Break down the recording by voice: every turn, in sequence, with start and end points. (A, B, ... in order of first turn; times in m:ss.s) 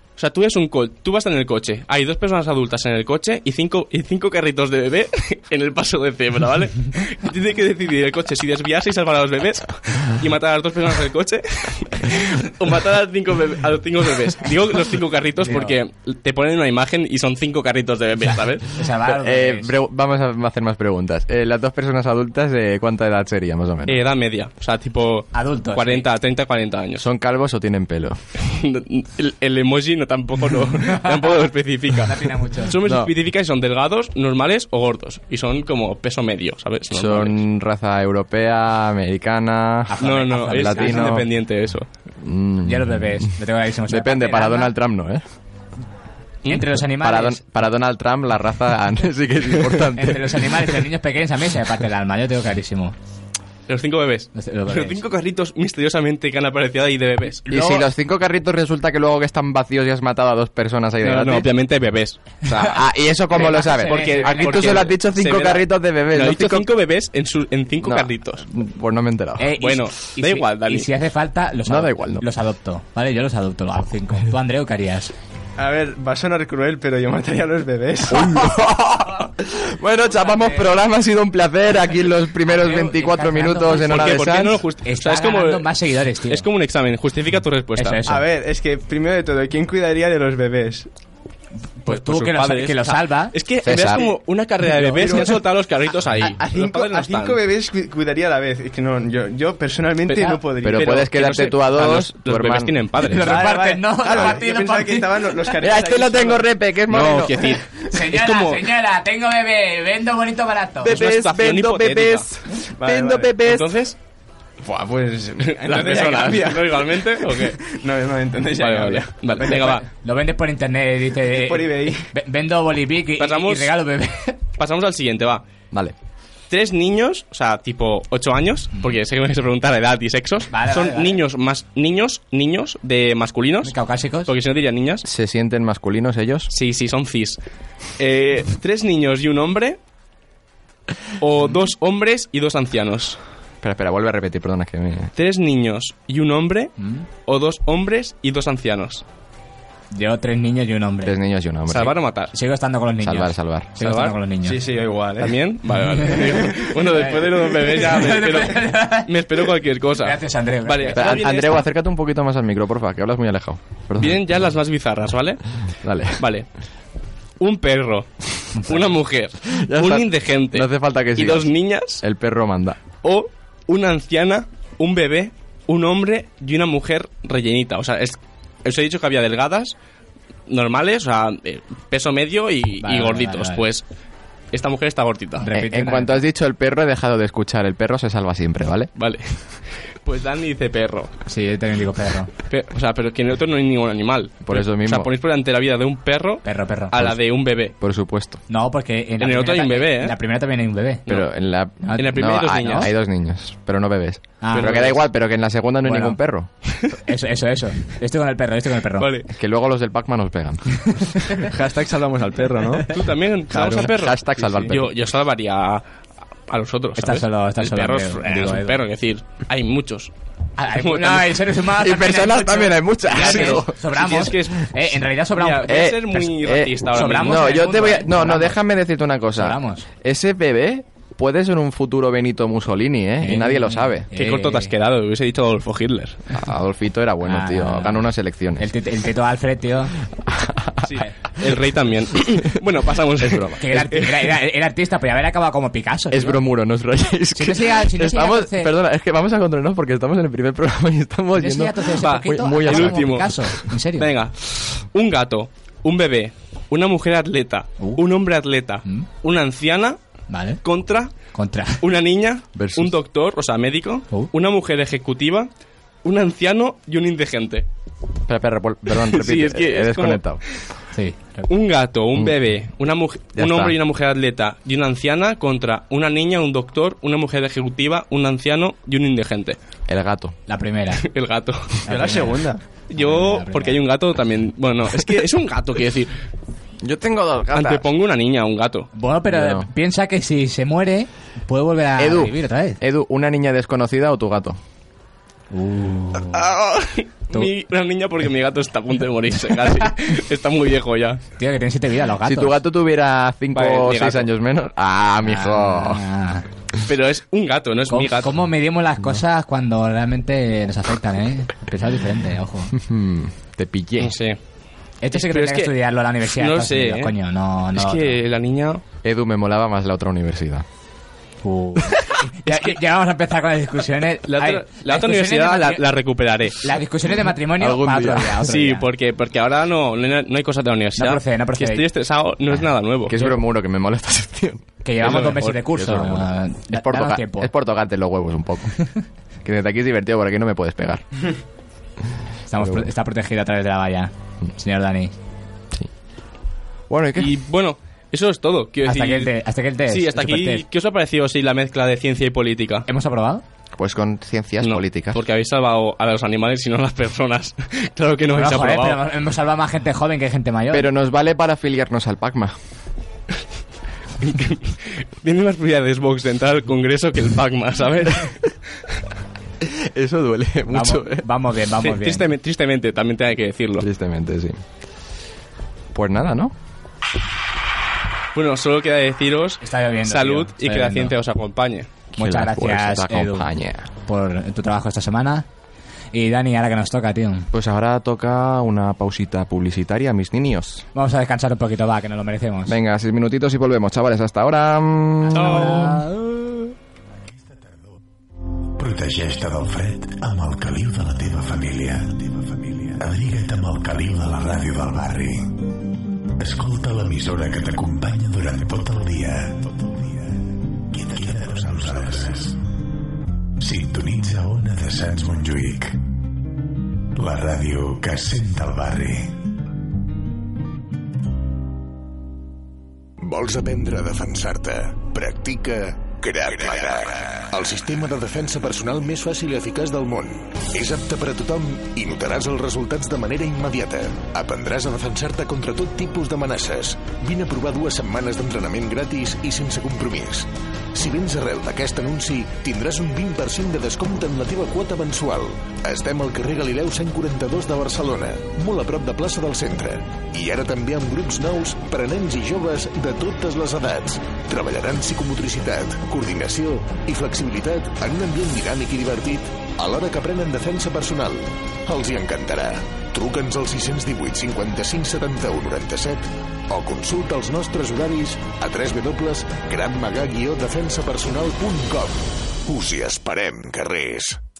0:00.2-0:18.8 A
0:15.4-0:15.7 B
0:18.8-0:19.7 B
0:19.2-0:24.0 C
0:23.9-0:27.0 A
0:25.3-0:26.0 B
0:27.0-0:28.2 C
0:28.4-0:37.4 A
0:32.0-0:32.7 B
0:32.8-0:33.1 C
0:36.9-0:41.2 C
0:39.9-0:41.2 B
0:40.0-0:41.9 A
0:42.2-0:43.3 C
0:42.6-0:44.7 B
0:43.9-0:45.2 C
0:46.5-0:47.4 B
0:47.0-0:50.4 C
0:50.0-0:52.9 B
0:53.7-0:57.4 A
0:54.3-0:55.0 B
0:57.5-1:01.5 C
0:57.5-0:57.8 B
1:01.0-1:02.8 A
1:02.6-1:06.7 C
1:03.3-1:04.9 B
1:03.3-1:08.4 A
1:07.8-1:09.5 C
1:09.4-1:15.1 B
1:09.6-1:10.9 A
1:11.7-1:12.2 C
1:15.6-1:18.4 D
1:18.1-1:24.6 C
1:20.3-1:20.5 B
1:22.5-1:26.5 B
1:23.7-1:25.7 A
1:26.3-1:28.0 A
1:27.8-1:28.3 B
1:28.0-1:30.9 D
1:31.8-1:33.4 B
1:31.8-1:37.4 A
1:33.6-1:34.0 C
1:34.7-1:35.3 B
1:35.0-1:35.3 D
1:36.4-1:41.0 D
1:40.1-1:43.3 A
1:40.6-1:42.7 C
1:43.0-1:45.3 B
1:43.2-1:46.5 D
1:45.6-1:47.6 C
1:46.9-1:48.6 A
1:47.9-1:50.9 B
1:50.8-1:53.7 C
1:50.8-1:52.3 A
1:52.8-1:53.3 D
1:53.4-1:54.0 A
1:54.6-1:59.8 D
1:55.5-1:57.6 A
1:58.6-1:59.8 A
1:59.8-2:04.4 B
2:01.3-2:02.0 D
2:03.2-2:03.7 A
2:04.6-2:05.4 A
2:06.5-2:13.7 A
2:10.5-2:11.2 B
2:13.6-2:14.3 B
2:14.2-2:15.0 A
2:15.0-2:16.5 C
2:16.5-2:17.4 A
2:18.0-2:19.8 A
2:21.2-2:23.2 A
2:23.6-2:25.1 C
2:25.2-2:29.0 A
2:26.8-2:27.0 B
2:29.9-2:31.1 B
2:31.0-2:31.9 C
2:31.7-2:32.3 A
2:32.3-2:34.6 B
2:33.0-2:33.7 C
2:33.8-2:34.2 A
2:34.4-2:35.3 D
2:35.2-2:41.7 A
2:36.3-2:36.7 D
2:36.9-2:39.1 B
2:40.0-2:41.2 B
2:40.9-2:44.2 C
2:44.0-2:45.4 A
2:45.8-2:46.2 C
2:46.1-2:46.5 A
2:47.4-2:52.0 A
2:49.6-2:52.8 C
2:53.0-2:59.7 A
3:00.5-3:03.8 A
3:02.8-3:03.6 B
3:04.5-3:05.5 A
3:05.4-3:06.1 B
3:05.5-3:08.9 C
3:09.0-3:11.1 A
3:11.3-3:12.3 B
3:12.5-3:17.7 A
3:14.4-3:15.1 C
3:16.4-3:17.0 B
3:17.8-3:18.4 C
3:18.5-3:21.0 B
3:19.2-3:20.2 A
3:21.1-3:26.5 C
3:21.8-3:22.8 B
3:21.9-3:22.9 A
3:24.4-3:24.9 B
3:24.5-3:25.0 A
3:25.8-3:26.2 B
3:27.1-3:29.1 B
3:29.0-3:29.2 A
3:29.3-3:30.8 C
3:31.5-3:32.9 D
3:32.9-3:35.8 A
3:33.5-3:34.9 C
3:36.5-3:40.1 A
3:37.0-3:38.8 B
3:40.6-3:45.8 B
3:40.7-3:41.4 A
3:41.8-3:43.8 C
3:43.1-3:44.7 A
3:45.3-3:47.9 A
3:45.6-3:54.1 C
3:46.9-3:48.5 B
3:49.4-3:49.8 B
3:53.2-3:54.7 B
3:54.1-3:56.2 A
3:56.3-3:58.7 C
3:57.2-3:58.0 B
3:58.6-3:59.9 B
4:00.3-4:00.7 C
4:00.8-4:04.1 A
4:03.2-4:03.9 C
4:03.6-4:06.4 B
4:06.1-4:13.3 C
4:07.4-4:08.7 B
4:11.4-4:14.1 B
4:12.0-4:13.4 A
4:14.0-4:20.0 A
4:20.3-4:20.6 B
4:20.6-4:21.3 A
4:21.3-4:21.8 B
4:21.8-4:25.5 A
4:22.5-4:22.9 C
4:26.0-4:27.6 A
4:28.3-4:30.4 C
4:28.9-4:30.6 A
4:30.9-4:31.5 B
4:31.5-4:39.6 A
4:33.4-4:33.8 C
4:39.9-4:40.4 C
4:40.5-4:41.0 B
4:41.0-4:41.8 A
4:41.8-4:43.8 B
4:41.9-4:42.6 D
4:42.9-4:46.1 A
4:46.8-4:47.8 C
4:47.5-4:48.9 A
4:48.9-4:52.8 B
4:49.3-4:49.7 C
4:52.0-4:54.6 C
4:55.5-4:56.4 B
4:56.3-5:01.2 A
5:01.4-5:02.5 B
5:02.2-5:06.0 C
5:03.5-5:04.3 A
5:05.2-5:06.4 B
5:06.8-5:08.4 A
5:07.9-5:12.7 B
5:12.8-5:14.2 C
5:14.0-5:14.4 A
5:15.0-5:18.2 B
5:15.1-5:15.7 A
5:16.3-5:17.1 A
5:17.7-5:18.8 A
5:19.0-5:20.6 C
5:21.4-5:25.8 B
5:24.3-5:26.7 A
5:26.6-5:28.8 B
5:27.6-5:28.4 C
5:28.4-5:33.3 A
5:31.0-5:31.8 B
5:33.1-5:34.6 C
5:34.8-5:37.5 B
5:35.0-5:35.6 A
5:35.7-5:38.7 C
5:39.4-5:41.0 C
5:42.5-5:45.1 B
5:42.6-5:42.9 C
5:46.9-5:47.3 C
5:47.2-5:49.3 A
5:48.8-5:50.6 B
5:49.9-5:52.9 A
5:52.9-5:53.4 B
5:53.8-5:55.2 C
5:54.6-5:59.0 A
5:58.3-6:00.8 B
6:00.7-6:02.5 C
6:04.2-6:08.5 A
6:09.6-6:11.2 C
6:10.7-6:12.3 B
6:11.8-6:13.9 A
6:13.8-6:14.6 C
6:15.9-6:16.5 C
6:18.3-6:21.9 A
6:19.6-6:21.1 B
6:22.2-6:23.5 B
6:22.2-6:23.9 C
6:24.0-6:25.4 B
6:26.1-6:27.5 B
6:27.5-6:30.8 C
6:30.9-6:32.7 B
6:32.7-6:35.6 C
6:35.3-6:36.5 B
6:35.3-6:36.0 A
6:37.3-6:38.0 E
6:38.8-6:45.6 E
6:46.4-6:50.0 E
6:50.9-6:52.6 E
6:53.6-6:56.0 E
6:57.1-6:59.4 E
7:03.2-7:54.4 E